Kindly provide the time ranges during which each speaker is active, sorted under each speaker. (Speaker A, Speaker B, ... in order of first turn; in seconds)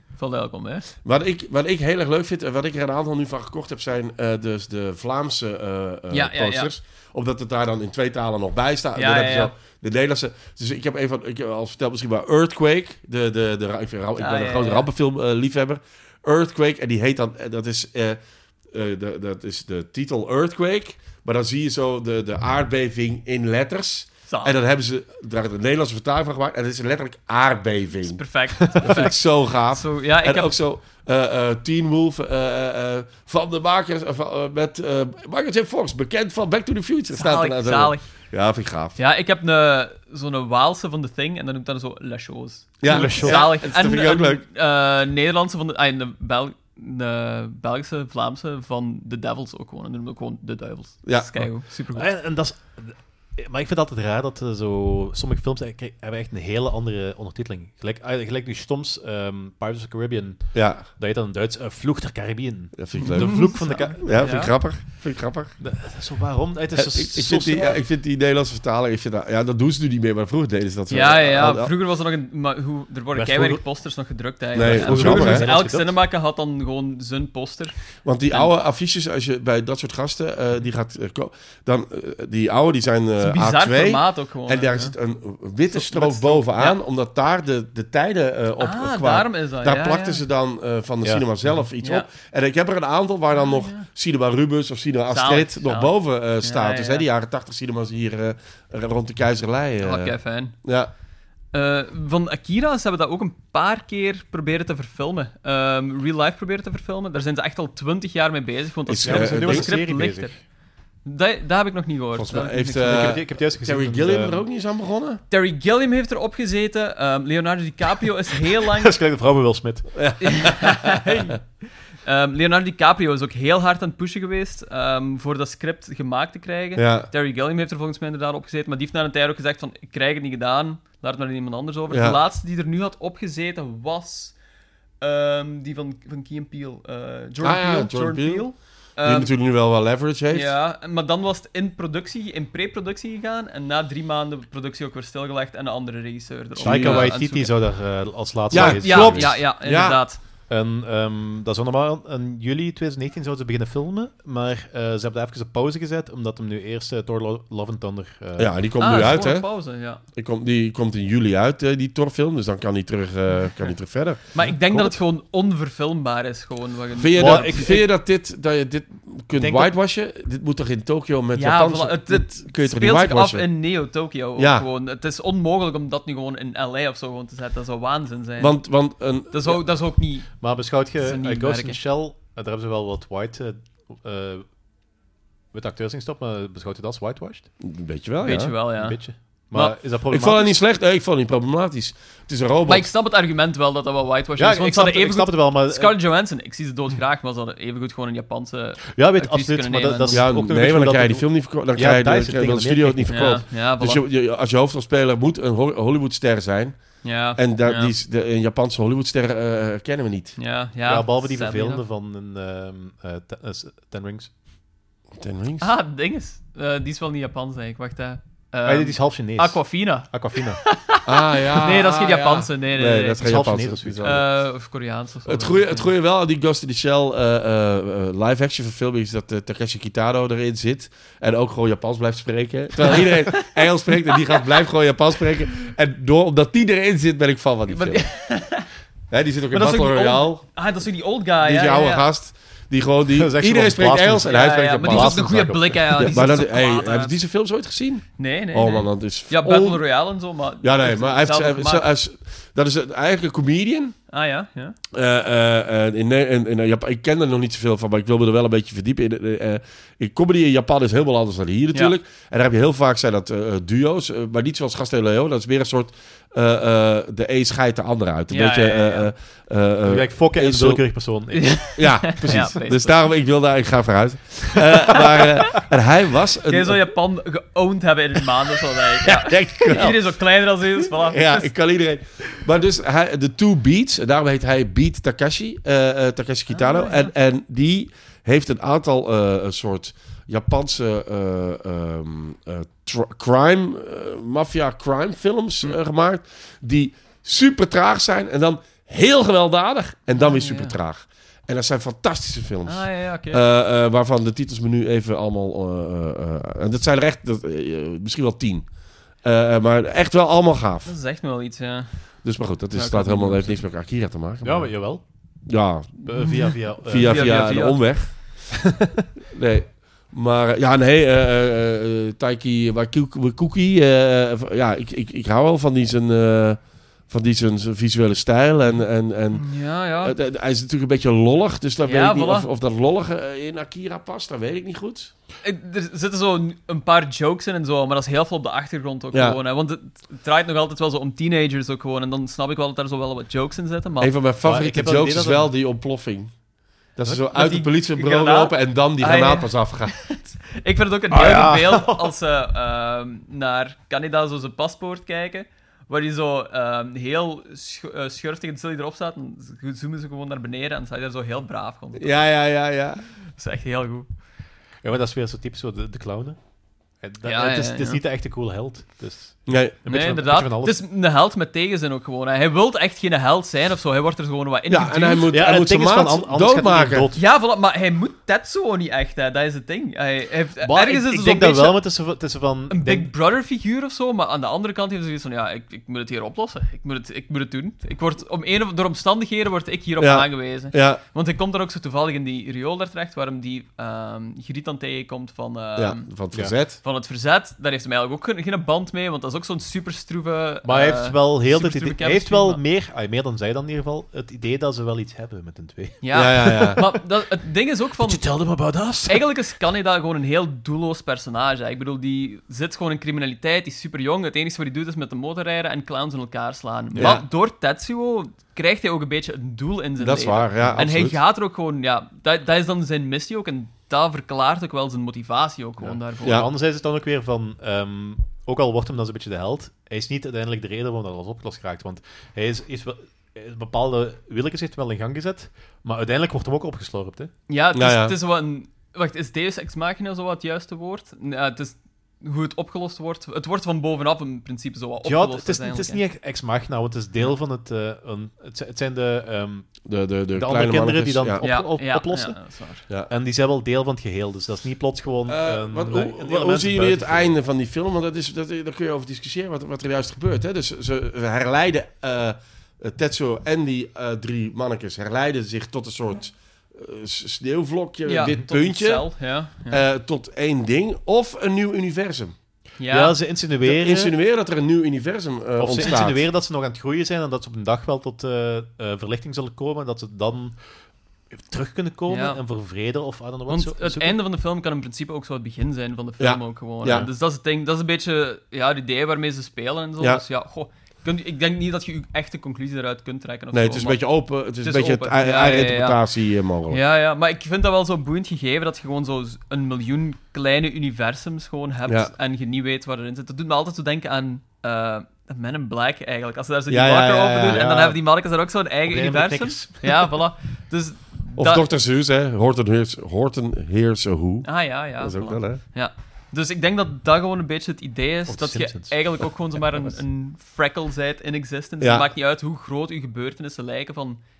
Speaker A: 0.2-0.9, 6.1-6.7, 9.0-9.5, 14.2-14.9, 24.3-24.6, 28.0-30.5, 37.1-38.1, 39.0-52.1, 63.0-64.5, 70.9-77.8, 83.2-84.9, 85.7-86.8, 88.6-90.2, 91.8-92.1, 93.3-93.9, 95.1-97.0, 99.8-100.5, 101.5-110.4, 111.0-113.2, 115.3-119.0, 120.2-121.4, 122.0-134.3, 135.0-139.3, 140.3-147.6, 148.5-150.2, 158.8-160.0, 164.3-167.8, 171.3-181.8, 188.2-189.8, 192.7-200.2, 203.1-204.0, 207.0-207.9, 210.4-211.8, 215.6-223.4, 224.0-225.9, 237.7-238.7, 239.5-242.1, 244.2-247.1, 248.2-251.9, 254.1-254.8, 268.3-269.1, 271.4-273.0, 276.5-281.6, 286.5-287.1, 300.2-300.8, 302.6-303.4, 310.9-312.0, 312.7-313.6, 316.9-318.2, 329.3-330.1, 331.8-332.5, 335.4-344.1, 347.1-362.3, 363.4-364.1, 367.3-368.0, 369.9-375.3, 377.2-381.8, 382.7-396.1, 396.8-402.6, 406.0-426.4, 437.5-446.0, 451.4-452.9, 468.1-469.8, 472.8-473.2, 482.1-482.4, 483.5-496.0, 496.7-511.6, 514.4-524.2
Speaker B: 1.0-39.0, 42.8-44.4, 51.0-51.3, 60.5-60.9, 62.8-65.5, 66.7-71.7, 74.5-75.5, 78.0-100.9, 108.9-109.7, 112.2-115.2, 120.0-120.8, 126.8-127.1, 131.9-132.2, 137.4-138.5, 139.0-140.5, 146.6-147.2, 148.5-150.1, 158.4-164.2, 167.0-173.5, 174.4-174.7, 178.4-179.6, 187.6-188.6, 190.1-192.9, 200.1-210.4, 215.2-215.7, 221.1-224.3, 225.2-238.1, 239.1-240.4, 241.4-250.0, 250.6-254.0, 254.9-271.0, 271.7-276.8, 279.0-280.1, 280.8-308.7, 309.2-310.9, 312.2-314.8, 315.5-318.5, 319.3-335.1, 339.1-339.4, 344.0-346.3, 346.9-350.3, 362.0-363.1, 369.5-369.8, 374.7-377.1, 390.0-391.0, 395.8-396.8, 406.1-406.8, 417.0-417.3, 420.0-421.2, 426.2-426.5, 437.7-438.2, 449.9-451.4, 455.3-472.4, 473.6-476.2, 486.2-487.1, 493.5-496.8, 506.7-507.7, 511.4-515.6, 521.8-522.1
Speaker C: 42.9-43.5, 51.9-64.5, 65.6-67.8, 73.1-73.6, 74.6-75.9, 91.0-91.7, 109.0-110.4, 112.8-114.4, 118.6-120.7, 146.6-149.4, 150.5-159.1, 164.4-165.0, 167.2-167.8, 169.3-169.7, 180.4-184.5, 185.5-187.5, 188.8-190.6, 194.4-196.0, 198.9-203.4, 210.9-214.3, 218.7-220.6, 223.2-224.1, 243.2-245.8, 269.9-271.8, 314.4-315.0, 316.0-317.5, 318.6-319.0, 344.4-345.5, 351.1-352.1, 364.8-366.4, 367.0-370.8, 375.3-377.2, 380.6-383.1, 400.6-407.0, 408.0-409.3, 416.9-417.2, 425.8-437.3, 445.0-457.3, 472.9-474.1, 475.6-480.6, 481.3-484.2, 507.5-508.0, 508.9-510.1, 518.3-520.0